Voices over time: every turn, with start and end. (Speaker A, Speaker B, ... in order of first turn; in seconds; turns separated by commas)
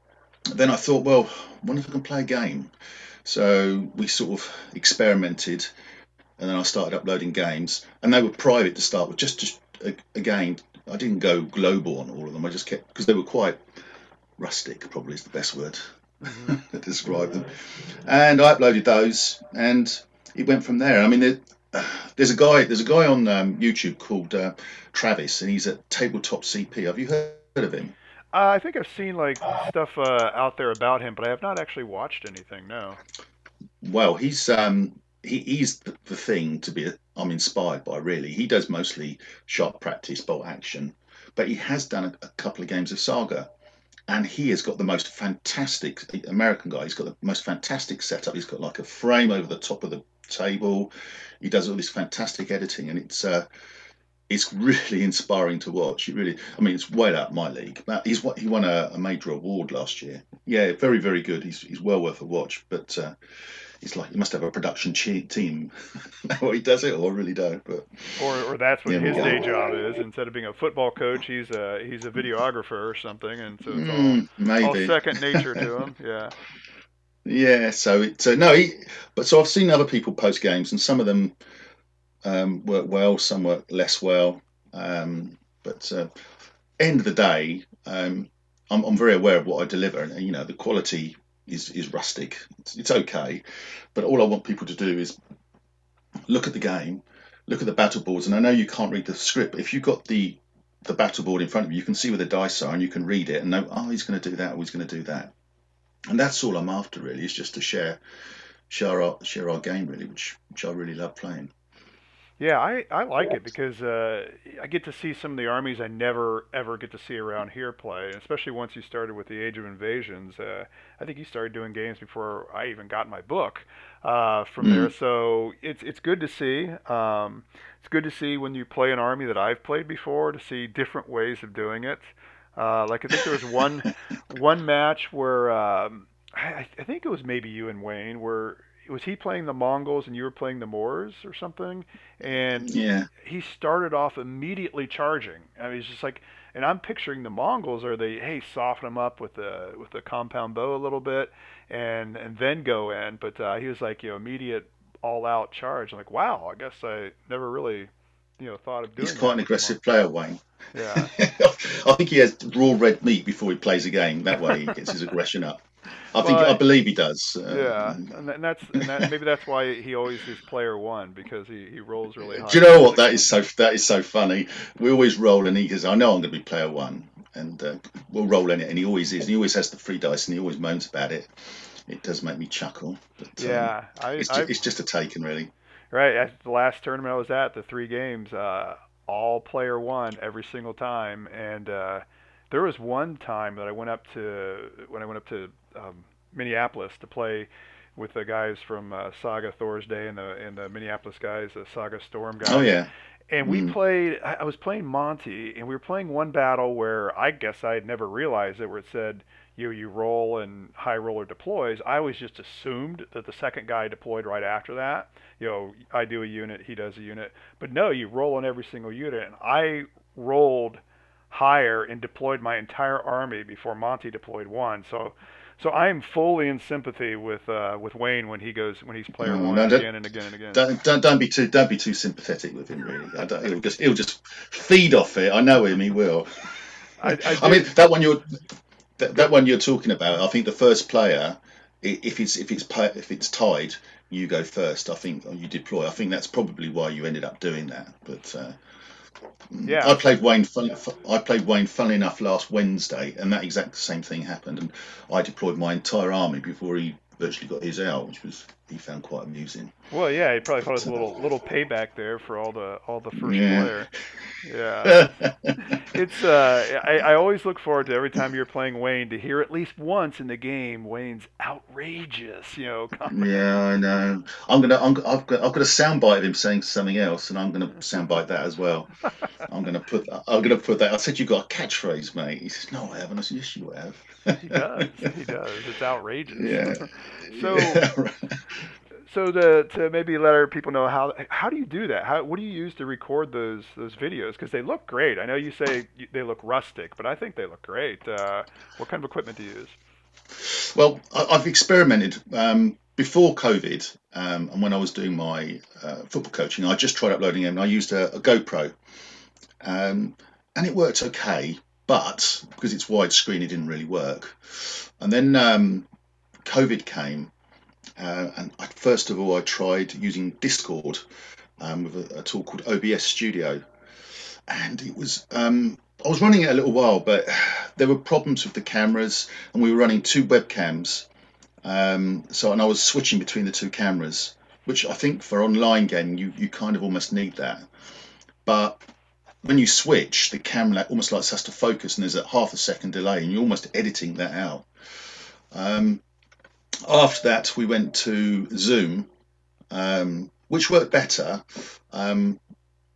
Speaker A: 0.5-2.7, Speaker A: 3.2-5.7, Speaker A: 6.4-13.6, Speaker A: 14.4-27.9, Speaker B: 16.2-16.6, Speaker B: 28.3-33.0, Speaker A: 33.8-43.5, Speaker A: 44.1-53.5, Speaker A: 54.3-63.2, Speaker A: 63.8-68.2, Speaker B: 68.2-76.3, Speaker A: 68.8-69.5, Speaker A: 73.7-75.6, Speaker A: 77.2-81.3, Speaker A: 82.2-86.1, Speaker A: 86.8-93.4, Speaker A: 93.9-95.2, Speaker A: 96.3-105.3, Speaker A: 106.1-108.0, Speaker A: 108.7-111.5, Speaker B: 112.4-159.8, Speaker A: 124.6-124.9, Speaker A: 142.6-143.1, Speaker A: 159.0-160.4, Speaker B: 160.7-161.1, Speaker A: 160.9-168.1, Speaker B: 166.2-166.6, Speaker B: 167.5-173.2, Speaker A: 168.7-169.1, Speaker A: 172.2-185.5, Speaker B: 183.4-184.6, Speaker B: 185.9-202.7, Speaker A: 202.4-202.9, Speaker B: 203.3-230.6, Speaker A: 203.4-203.8, Speaker A: 229.2-229.9, Speaker A: 230.5-238.4, Speaker B: 237.0-237.7, Speaker A: 239.0-248.6, Speaker A: 249.5-259.7, Speaker B: 249.6-250.1, Speaker B: 259.9-273.4, Speaker A: 263.1-263.8, Speaker A: 264.8-265.9, Speaker A: 273.1-285.0, Speaker B: 284.3-287.9, Speaker A: 286.3-288.7, Speaker B: 289.1-299.8, Speaker A: 300.4-308.7, Speaker A: 309.6-315.9, Speaker A: 316.4-317.3, Speaker A: 318.0-321.0, Speaker A: 321.6-323.6, Speaker A: 324.5-331.1, Speaker A: 331.6-337.7, Speaker A: 338.4-338.8, Speaker A: 339.4-344.7, Speaker A: 345.5-346.0, Speaker A: 346.8-349.1, Speaker A: 349.7-352.4